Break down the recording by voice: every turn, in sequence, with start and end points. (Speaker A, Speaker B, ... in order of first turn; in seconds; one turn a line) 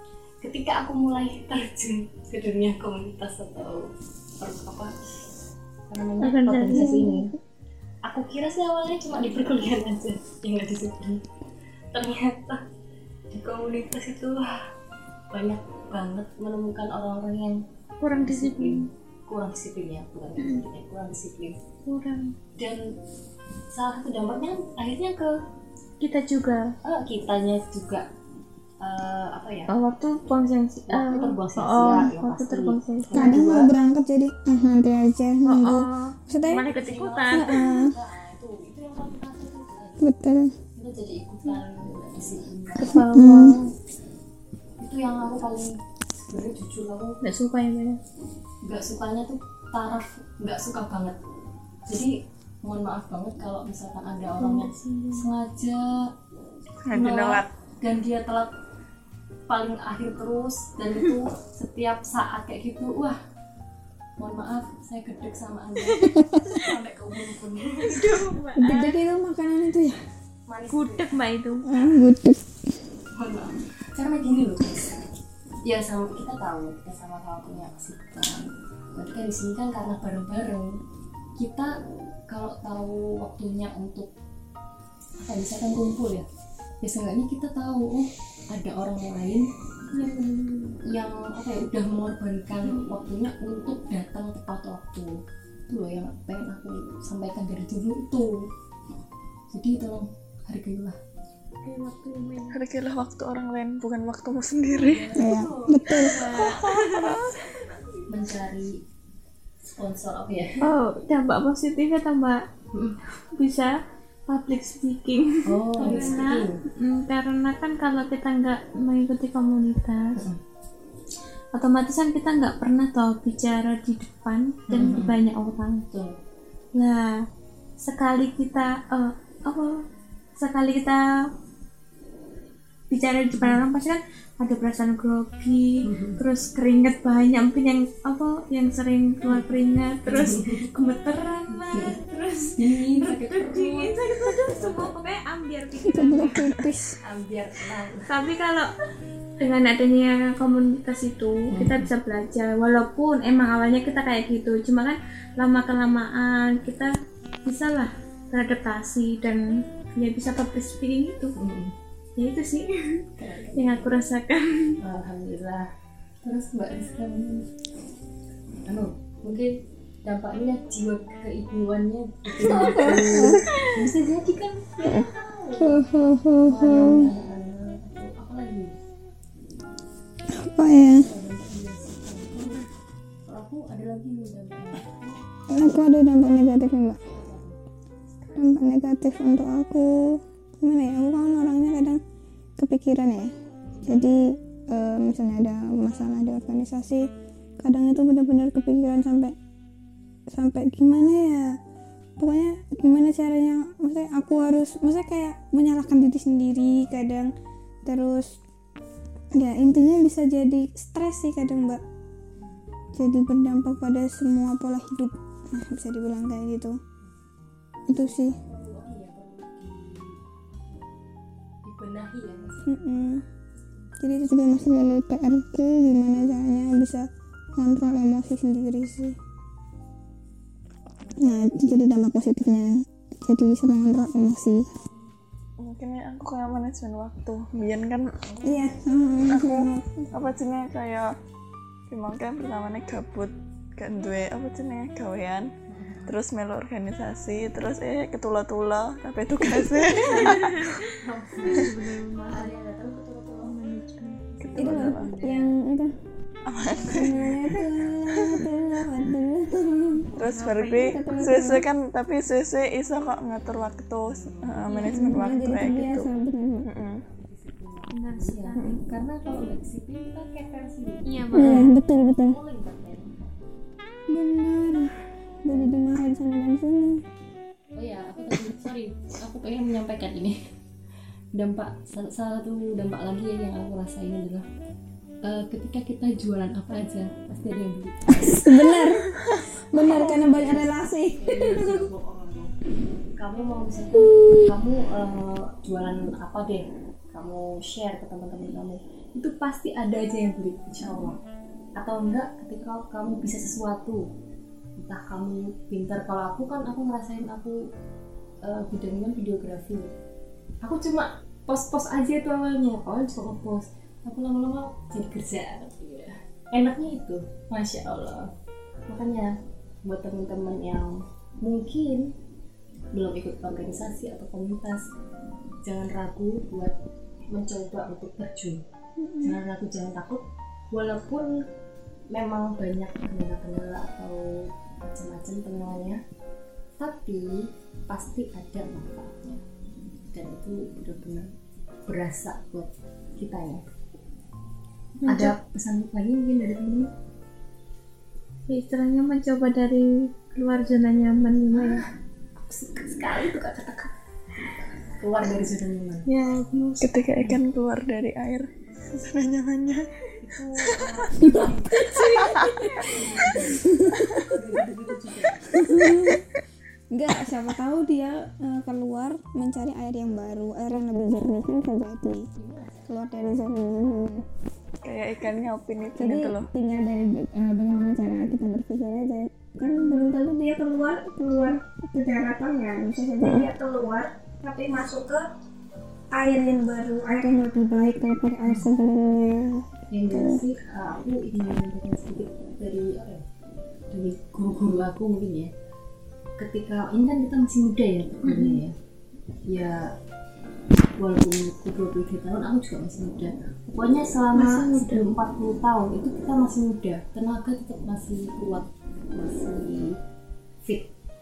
Speaker A: 0.4-5.2
Speaker A: 5.9-7.3
Speaker B: 6.2-7.0
Speaker C: 6.7-7.3
Speaker A: 8.1-11.2
Speaker A: 11.9-12.6
Speaker A: 13.3-14.7
Speaker A: 15.3-21.6
Speaker B: 18.0-18.9
Speaker B: 20.4-20.6
Speaker B: 21.9-22.4
Speaker A: 22.6-22.9
Speaker A: 23.7-25.4
Speaker B: 26.0-26.7
Speaker A: 26.8-28.1
Speaker A: 28.8-29.7
Speaker B: 29.7-33.4
Speaker A: 30.9-33.7
Speaker C: 33.1-36.7
Speaker D: 33.1-33.7
Speaker B: 35.4-37.8
Speaker A: 36.7-40.1
Speaker C: 37.3-38.0
Speaker C: 40.0-40.5
Speaker A: 40.7-43.5
Speaker B: 42.8-43.7
Speaker C: 42.9-43.6
Speaker A: 44.8-47.2
Speaker B: 47.2-48.0
Speaker A: 48.6-51.2
Speaker A: 51.9-56.1
Speaker B: 54.4-55.3
Speaker D: 56.9-57.5
Speaker A: 56.9-58.5
Speaker A: 59.5-63.2
Speaker A: 64.2-68.2
Speaker C: 66.2-66.5
Speaker B: 67.8-69.0
Speaker C: 68.6-70.0
Speaker A: 70.5-71.2
Speaker B: 70.7-71.7
Speaker C: 71.7-72.6
Speaker A: 73.2-75.0
Speaker A: 75.6-80.8
Speaker A: 81.4-81.7
Speaker A: 82.3-84.1
Speaker A: 85.2-86.3
Speaker A: 86.8-89.5
Speaker B: 89.9-90.8
Speaker A: 90.8-95.2
Speaker A: 95.7-98.5
Speaker A: 99.5-101.0
Speaker B: 101.6-102.6
Speaker D: 102.5-105.1
Speaker A: 104.7-106.1
Speaker B: 105.1-107.7
Speaker C: 105.2-106.2
Speaker D: 106.3-107.5
Speaker A: 108.1-108.8
Speaker A: 109.6-110.7
Speaker B: 110.6-112.4
Speaker A: 112.7-113.0
Speaker B: 113.2-113.7
Speaker B: 114.3-120.2
Speaker A: 115.5-116.6
Speaker A: 120.2-120.4
Speaker B: 121.5-125.8
Speaker A: 124.7-125.2
Speaker A: 125.9-126.2
Speaker B: 126.7-127.2
Speaker B: 127.8-129.8
Speaker B: 130.4-131.0
Speaker B: 132.9-146.5
Speaker A: 135.8-136.2
Speaker A: 140.1-140.7
Speaker A: 141.6-144.9
Speaker C: 145.8-147.0
Speaker A: 147.0-148.1
Speaker B: 148.1-148.7
Speaker B: 149.4-156.9
Speaker A: 151.5-151.9
Speaker B: 157.4-161.4
Speaker A: 161.4-161.8
Speaker B: 162.2-164.8
Speaker A: 163.2-164.0
Speaker A: 164.8-165.7
Speaker A: 166.2-167.5
Speaker A: 168.7-175.8
Speaker C: 172.4-173.5
Speaker B: 173.2-173.7
Speaker C: 175.6-177.1
Speaker A: 176.4-178.8
Speaker C: 180.3-181.1
Speaker A: 180.9-182.6
Speaker A: 183.2-185.2
Speaker C: 185.5-187.0
Speaker A: 187.1-187.6
Speaker C: 188.3-192.0
Speaker C: 192.6-197.1
Speaker A: 193.7-194.0
Speaker C: 197.6-199.4
Speaker C: 200.3-201.6
Speaker C: 202.2-207.3
Speaker C: 207.9-208.4
Speaker C: 209.3-211.8
Speaker A: 212.4-212.7
Speaker C: 212.9-216.8
Speaker C: 217.9-218.4
Speaker A: 217.9-220.9
Speaker A: 221.7-222.8
Speaker C: 222.7-223.2
Speaker C: 224.0-229.2
Speaker A: 231.0-231.7
Speaker C: 231.2-234.7
Speaker D: 235.6-238.2
Speaker A: 238.2-238.7
Speaker C: 238.4-240.1
Speaker D: 239.3-241.2
Speaker D: 241.9-245.5
Speaker A: 245.7-246.2
Speaker D: 246.1-250.9
Speaker B: 249.8-252.5
Speaker A: 251.0-253.6
Speaker B: 253.4-254.2
Speaker A: 254.3-255.5
Speaker D: 254.4-255.1
Speaker C: 254.6-255.9
Speaker D: 256.5-258.5
Speaker A: 256.8-257.1
Speaker C: 256.9-260.1
Speaker D: 260.1-266.1
Speaker B: 260.2-261.0
Speaker C: 260.8-261.6
Speaker A: 263.4-265.3
Speaker C: 264.8-266.7
Speaker D: 266.6-267.0
Speaker A: 267.1-273.4
Speaker B: 267.9-268.8
Speaker D: 268.6-268.8
Speaker B: 271.1-271.7
Speaker C: 271.3-272.4
Speaker C: 274.1-277.0
Speaker A: 277.8-280.4
Speaker A: 281.4-284.5
Speaker A: 285.2-288.8
Speaker C: 288.2-289.1
Speaker D: 289.3-290.4
Speaker C: 289.7-291.9
Speaker A: 289.8-292.5
Speaker A: 293.2-301.2
Speaker A: 301.8-304.0
Speaker A: 304.8-307.6
Speaker A: 308.4-309.9
Speaker A: 310.6-318.3
Speaker A: 318.9-322.1
Speaker A: 322.9-324.8
Speaker A: 325.6-326.8
Speaker A: 327.3-328.6
Speaker C: 329.0-329.4
Speaker A: 329.2-331.5
Speaker A: 332.1-336.0
Speaker A: 336.8-339.4
Speaker A: 340.1-343.7
Speaker B: 345.0-345.4
Speaker A: 345.1-346.9
Speaker B: 348.5-351.8
Speaker A: 351.5-356.1
Speaker B: 356.1-357.1
Speaker D: 356.8-359.9
Speaker A: 360.2-362.0
Speaker C: 361.2-364.4
Speaker B: 361.7-363.0
Speaker A: 362.8-363.7
Speaker A: 364.3-365.7
Speaker C: 365.5-366.2
Speaker C: 366.9-372.3
Speaker A: 372.4-372.9
Speaker C: 372.9-374.3
Speaker D: 374.8-376.5
Speaker C: 375.9-385.3
Speaker C: 386.1-390.4
Speaker A: 389.9-393.2
Speaker A: 393.9-395.5
Speaker A: 396.4-398.8
Speaker B: 398.2-398.6
Speaker A: 399.5-399.9
Speaker A: 401.0-410.0
Speaker B: 404.3-405.1
Speaker A: 410.6-410.9